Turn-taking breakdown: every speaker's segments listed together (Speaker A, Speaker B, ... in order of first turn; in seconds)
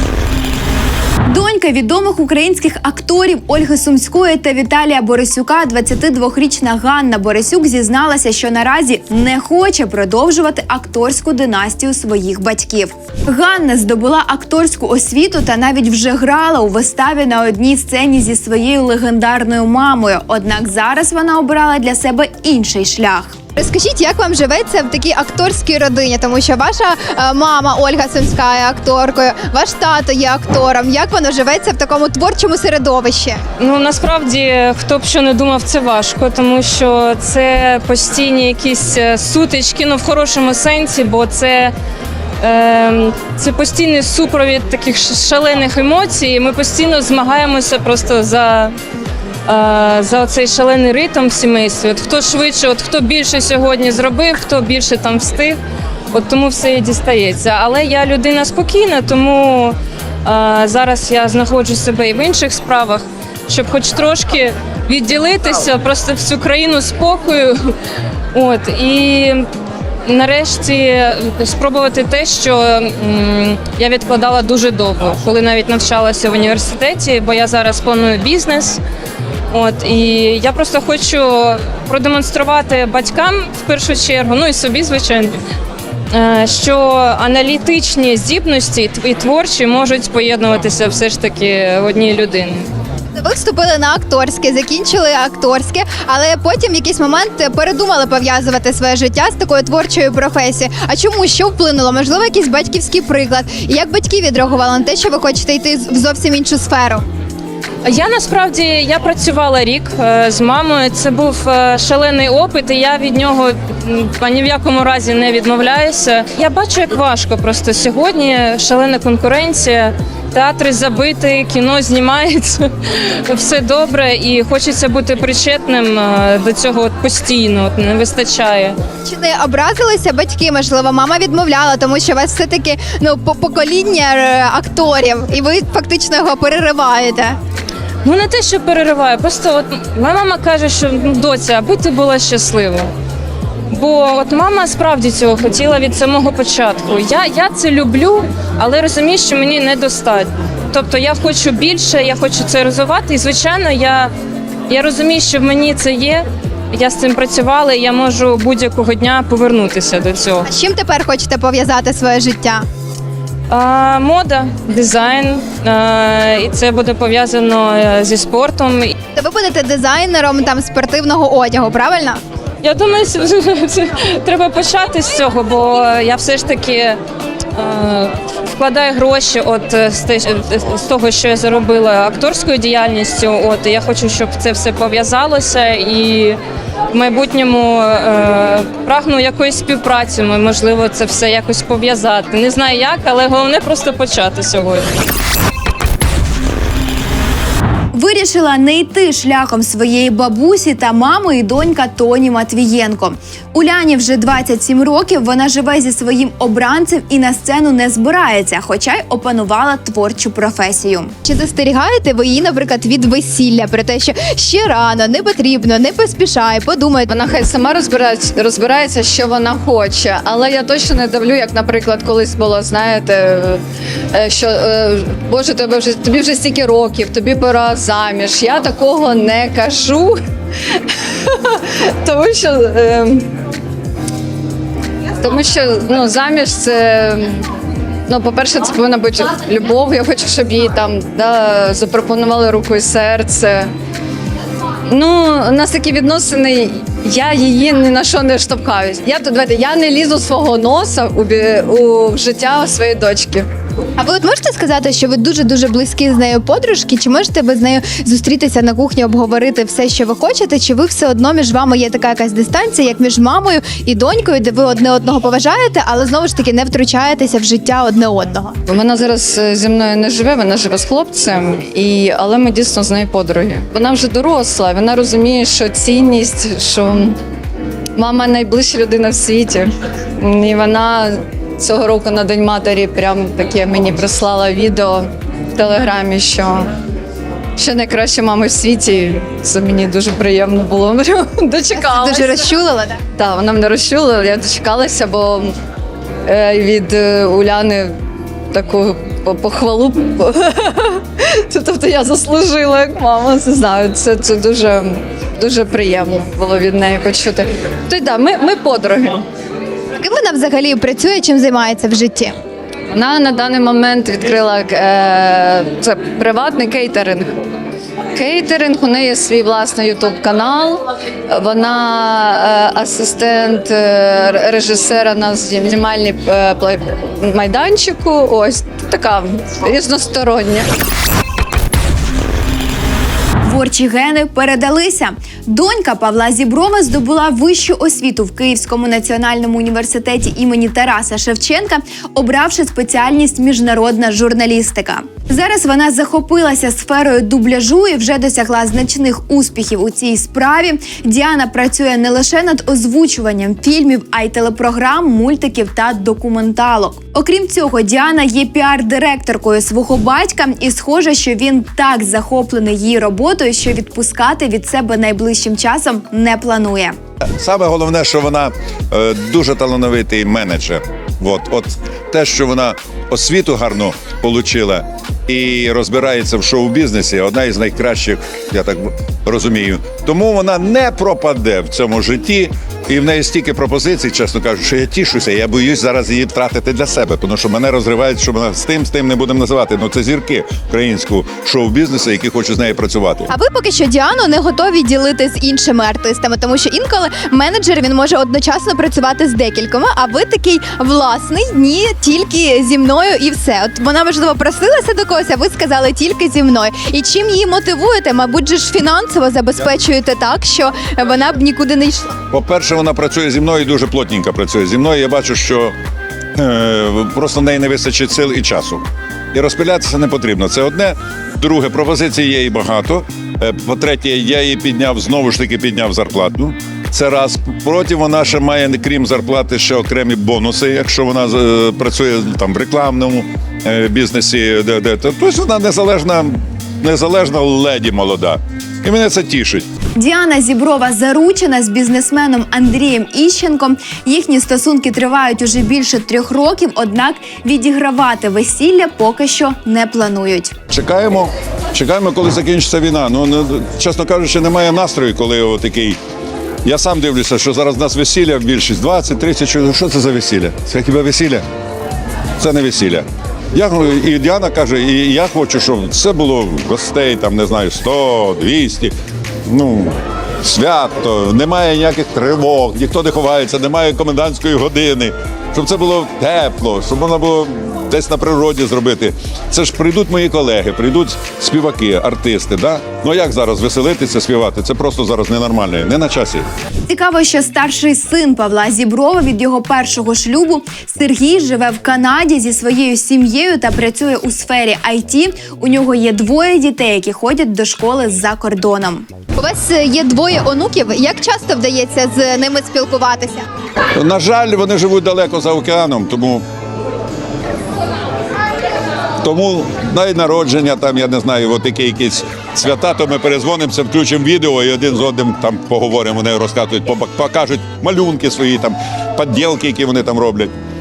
Speaker A: 1.2-23.4, 197.9-211.1, 333.4-366.9, 440.0-450.5, 486.9-499.1
Speaker B: 23.6-33.4, 93.2-107.0, 129.0-137.4, 160.5-162.6, 169.1-172.2, 211.2-217.1, 254.0-268.6, 291.8-293.0, 310.0-312.4, 393.3-412.2, 499.4-503.5
Speaker C: 33.6-41.7, 42.4-48.8, 49.5-55.6, 56.1-67.7, 68.3-69.5, 70.0-78.8, 79.5-85.4, 86.1-92.7, 107.8-128.8, 138.0-142.9, 143.7-154.1, 154.7-160.5, 163.5-168.9, 172.6-177.0, 177.6-186.4, 186.9-194.9
Speaker D: 217.1-230.2, 231.2-233.3, 235.2-237.4, 238.1-243.7, 244.9-253.5, 268.7-277.1, 278.0-286.7, 287.6-292.5, 293.2-295.5, 296.3-298.0, 298.5-309.2, 312.9-317.4, 318.1-330.7
Speaker E: 367.2-393.3, 412.3-415.8, 416.3-439.7, 450.7-456.0, 456.6-461.4, 462.4-468.9, 469.5-486.5, 503.9-506.4, 509.2-520.5